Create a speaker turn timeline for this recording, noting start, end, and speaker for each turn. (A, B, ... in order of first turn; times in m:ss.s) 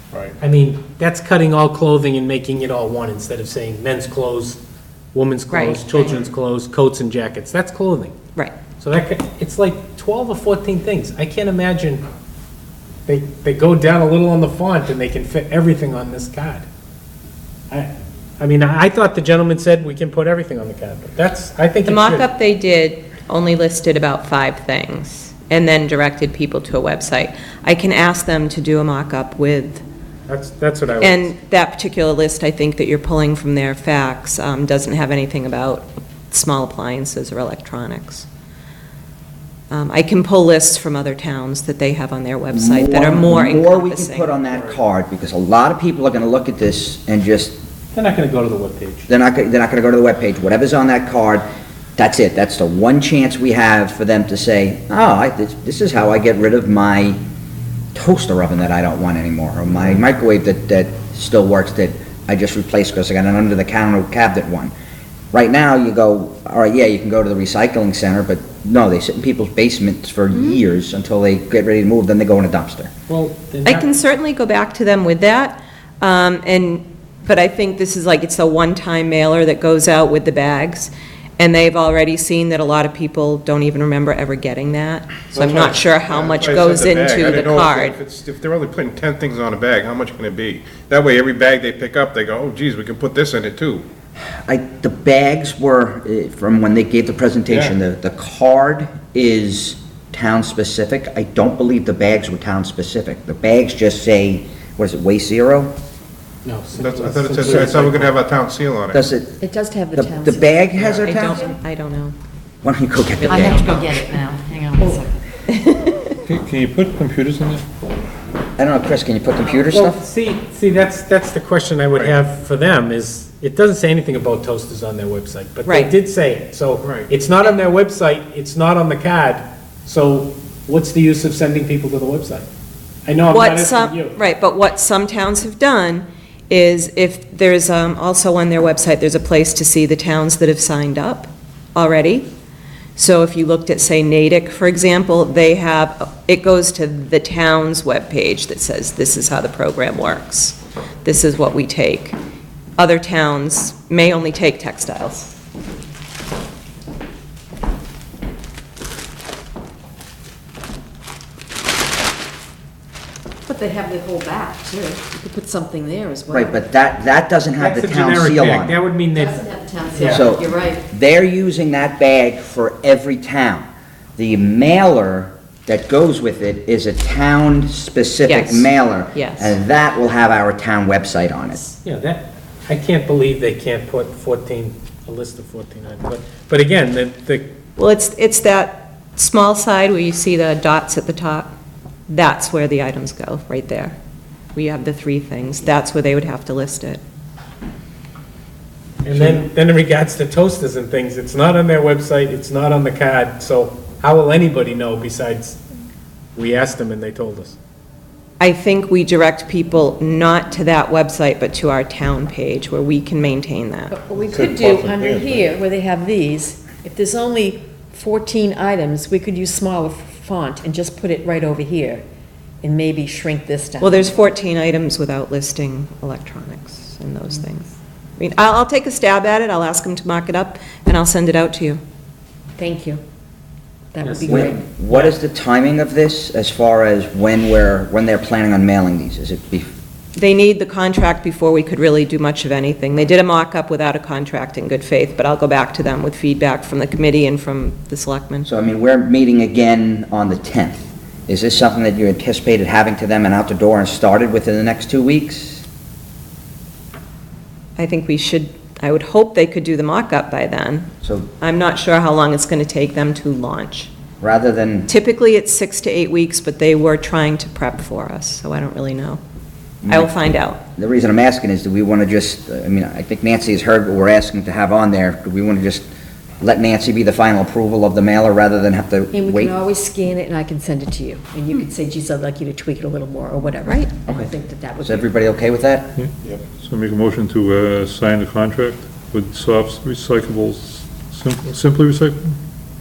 0:00.4-0:04.6 A
0:05.1-0:08.2 A
0:05.5-0:06.1 B
0:08.8-0:12.0 A
0:13.1-0:16.6 A
0:17.7-0:22.3 A
0:21.9-0:29.8 B
0:30.3-0:31.3 A
0:31.0-0:38.3 B
0:39.7-0:44.4 B
0:42.5-0:47.6 C
0:44.5-0:44.8 A
0:47.9-0:49.1 A
0:49.1-0:51.4 C
0:52.0-0:57.2 C
0:58.0-1:04.7 C
1:05.3-1:12.9 C
1:13.1-1:13.9 A
1:13.6-1:28.0 B
1:25.4-1:33.9 D
1:34.3-1:45.7 C
1:37.5-1:37.8 D
1:46.4-1:48.2 A
1:46.8-1:49.0 D
1:47.4-1:47.8 C
1:48.9-1:49.4 C
1:49.4-1:51.5 E
1:49.9-1:51.4 C
1:51.0-1:52.2 B
1:52.6-1:53.7 C
1:53.2-1:53.9 B
1:53.3-1:55.2 E
1:55.5-1:56.2 B
1:56.3-1:57.6 F
1:58.6-2:00.0 C
1:59.6-2:12.5 A
2:05.6-2:05.9 B
2:13.1-2:14.2 A
2:13.3-2:22.3 B
2:23.0-2:32.2 B
2:32.8-2:35.3 B
2:43.5-2:46.6 E
2:46.3-2:48.8 C
2:47.6-2:49.4 A
2:49.1-2:50.8 E
2:50.0-2:50.2 A
2:50.0-3:01.6 C
2:58.3-2:59.6 B
3:01.8-3:07.5 A
3:07.8-3:11.5 B
3:12.1-3:14.0 B
3:14.6-3:17.0 B
3:19.0-3:25.6 A
3:26.4-3:27.6 A
3:28.4-3:34.0 B
3:33.9-3:42.0 E
3:34.4-3:35.3 D
3:42.6-3:44.1 E
3:43.8-3:51.8 B
3:52.6-3:53.0 E
3:53.9-3:54.6 E
3:54.0-3:55.1 A
3:54.3-3:59.7 C
4:00.2-4:08.5 B
4:08.4-4:15.6 C
4:17.8-4:20.9 B
4:21.0-4:21.3 C
4:21.4-4:23.9 B
4:24.2-4:24.9 C
4:24.9-4:29.2 B
4:29.8-4:35.8 C
4:29.9-4:30.6 B
4:36.4-4:39.6 C
4:39.1-4:45.2 E
4:43.6-4:43.9 B
4:44.1-4:45.9 C
4:46.0-4:52.4 F